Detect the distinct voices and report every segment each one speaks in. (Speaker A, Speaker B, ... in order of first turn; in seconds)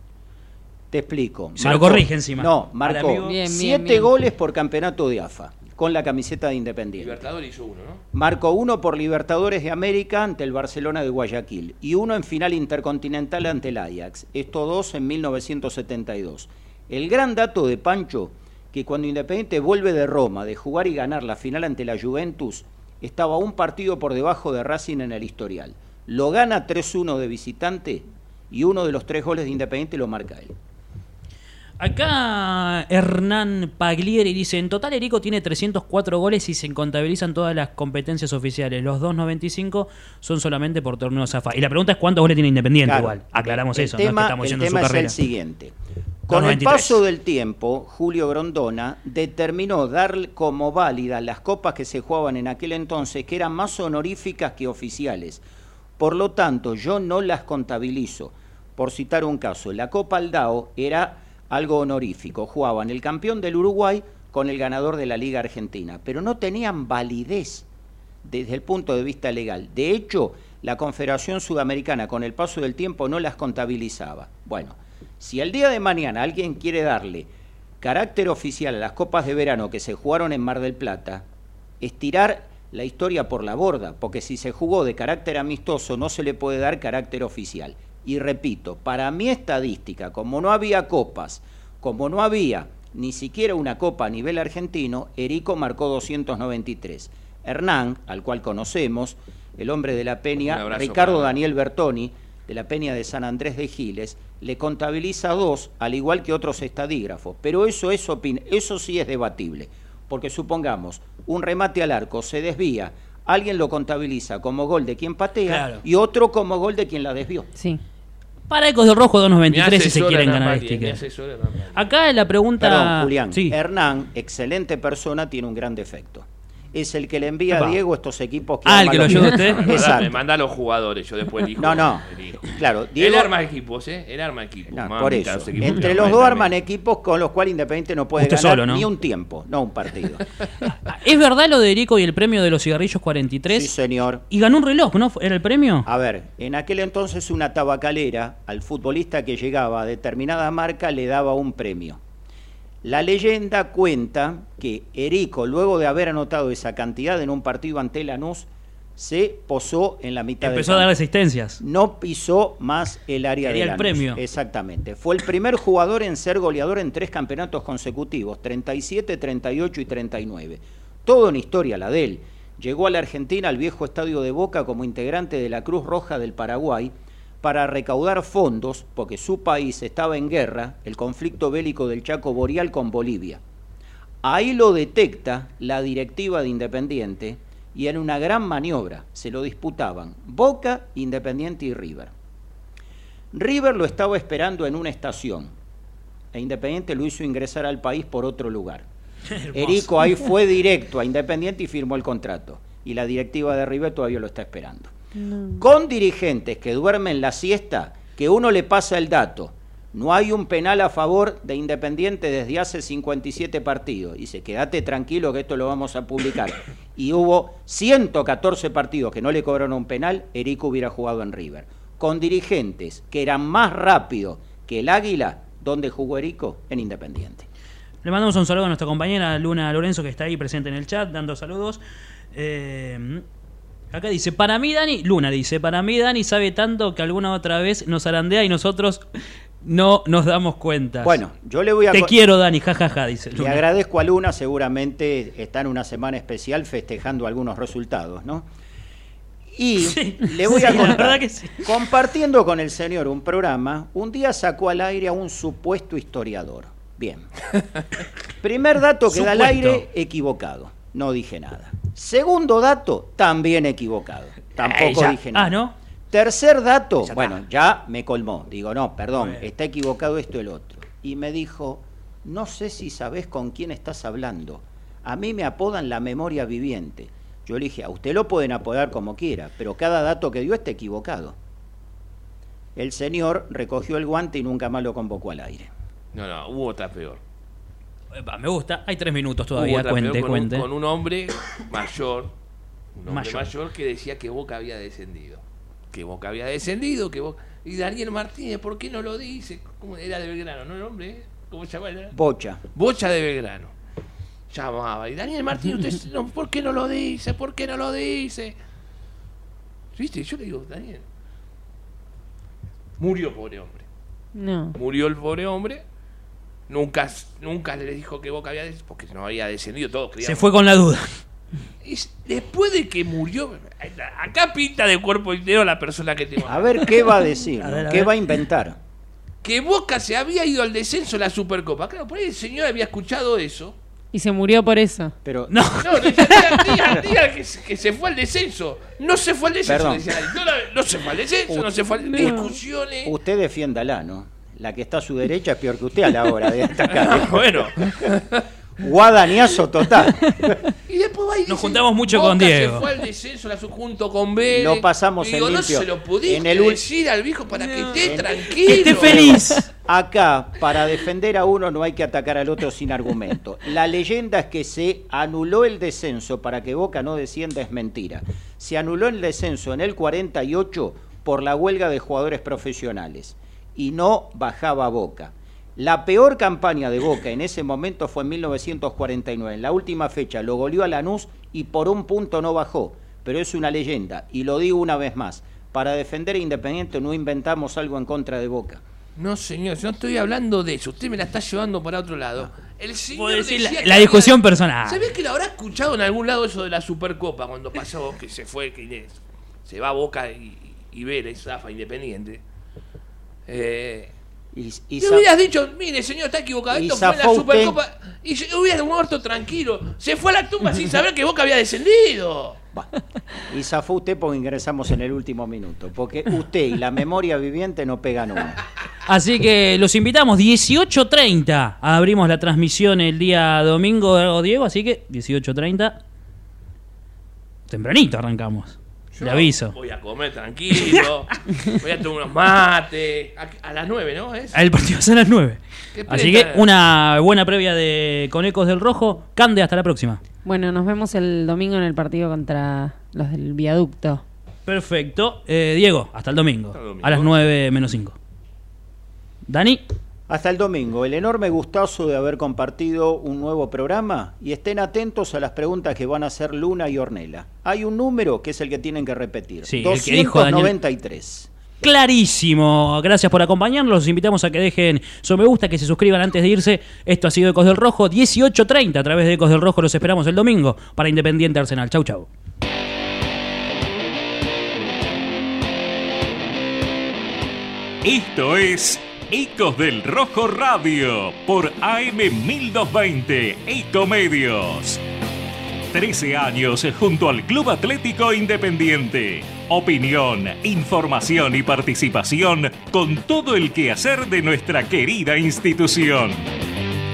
Speaker A: 0.9-7.2, 8.1-30.5, 42.9-45.7, 46.3-55.4, 56.0-67.7, 68.2-77.3, 77.8-81.2, 81.8-117.5, 122.6-130.1, 131.6-133.3, 134.7-140.2, 143.5-144.2, 145.9-152.0, 152.8-160.9, 161.6-183.4, 184.2-192.1, 193.3-195.5, 196.3-198.9, 199.5-204.9, 205.6-227.5, 241.0-242.1, 243.3-248.5, 249.5-257.3, 258.4-265.5, 266.1-281.4, 282.8-285.7, 302.1-302.6, 326.5-328.8, 335.2-335.6, 339.6-340.1, 341.5-342.5, 343.0-347.4, 348.8-350.6, 354.4-356.8, 358.0-388.8, 404.5-405.3, 406.7-407.8, 412.7-418.6, 450.3-461.5
Speaker B: 1.6-3.4, 31.8-45.1, 46.3-47.0, 115.5-115.8, 118.5-121.0, 121.7-123.6, 127.5-127.8, 128.6-129.7, 138.2-138.9, 140.7-143.7, 144.3-145.9, 160.4-161.6, 163.4-164.2, 199.3-200.1, 228.0-231.8, 232.3-233.2, 233.9-239.1, 239.6-241.2, 241.9-243.6, 249.8-251.7, 259.1-259.8, 264.6-265.7, 267.0-267.4, 269.2-269.5, 288.1-290.7, 293.1-293.5, 320.2-321.2, 327.6-328.3, 335.5-337.0, 350.2-350.5, 351.5-352.9, 357.6-359.7, 393.1-395.1, 419.1-426.0, 427.7-429.7, 434.5-440.2, 444.6-448.1, 449.4-449.8, 459.6-460.7, 461.8-472.3
Speaker C: 3.2-4.1, 205.2-205.6, 314.3-314.8, 334.1-335.1, 342.1-342.5, 440.4-444.2
Speaker D: 7.0-8.0, 100.4-101.4, 119.5-121.9, 129.2-136.6, 286.1-287.2, 289.6-292.3, 292.9-302.1, 302.7-303.7, 304.5-308.6, 309.9-311.0, 313.0-313.8, 314.7-315.8, 316.7-320.5, 321.8-327.1, 329.4-333.8, 335.8-343.1, 346.9-348.4, 350.9-359.4, 389.2-402.4, 403.5-404.1, 405.0-412.6, 429.1-434.6, 435.9-436.6, 446.7-447.3
Speaker E: 478.0-485.0, 485.9-496.5